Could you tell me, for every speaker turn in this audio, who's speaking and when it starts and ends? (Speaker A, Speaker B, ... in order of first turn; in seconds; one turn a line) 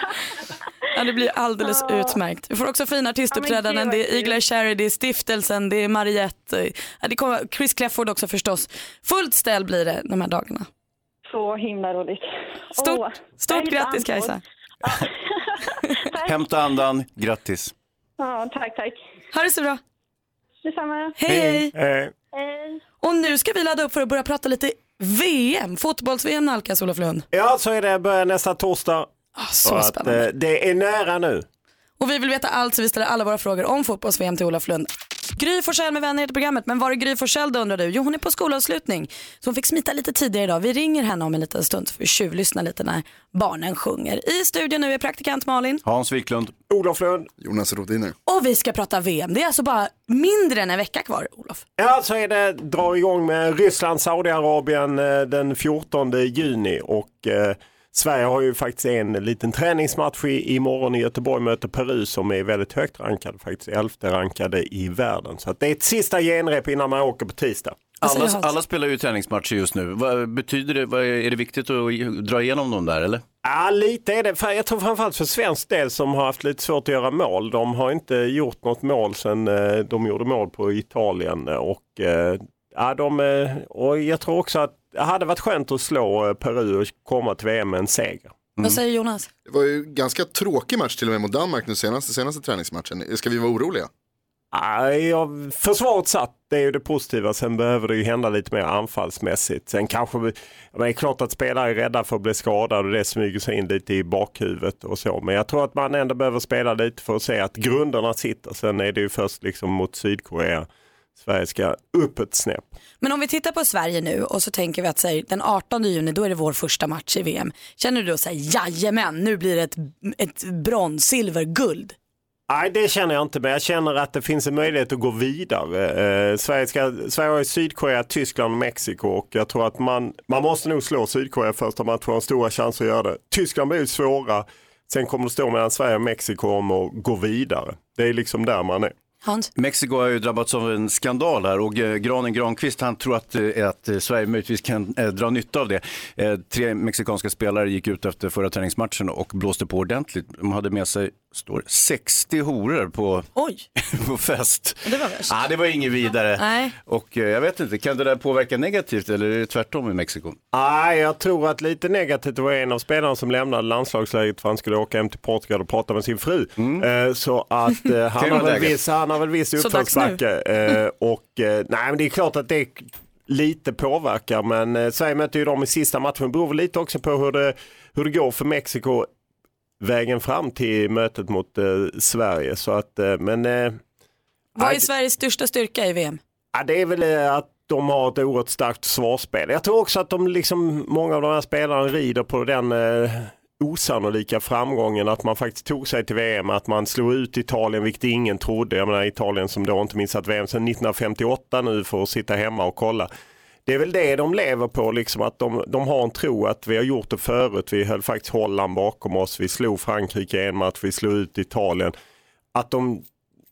Speaker A: 0.9-10.7
Speaker B: 3.4-3.9
Speaker B: 11.3-12.2
Speaker A: 12.8-14.4
Speaker B: 13.6-14.1
Speaker C: 16.2-17.7
Speaker B: 18.2-18.9
Speaker A: 19.3-19.8
Speaker A: 21.2-21.7
Speaker D: 21.3-22.1
Speaker B: 22.4-22.7
Speaker A: 23.0-27.3
Speaker D: 27.3-29.1
Speaker A: 29.4-30.3
Speaker D: 29.6-31.5
Speaker A: 32.0-45.8
Speaker C: 45.9-46.5
Speaker D: 46.7-47.3
Speaker E: 47.4-48.1
Speaker A: 48.3-51.6
Speaker D: 51.8-67.9
Speaker C: 68.0-73.2
Speaker A: 68.0-68.5
Speaker D: 73.4-88.4
Speaker A: 88.6-89.3
Speaker E: 89.5-93.9
Speaker D: 94.5-112.6
Speaker A: 113.0-122.0
Speaker D: 122.5-138.9
Speaker A: 139.2-139.5
Speaker C: 139.6-153.3
Speaker A: 153.4-153.7
Speaker C: 153.8-160.4
Speaker A: 154.9-155.3
Speaker A: 156.4-156.7
Speaker D: 160.5-179.1
Speaker C: 166.6-166.8
Speaker C: 168.2-168.8
Speaker A: 169.6-170.2
Speaker D: 179.8-183.8
Speaker A: 184.6-186.2
Speaker D: 184.6-184.9
Speaker D: 186.5-203.1
Speaker D: 203.7-211.9
Speaker D: 212.5-213.0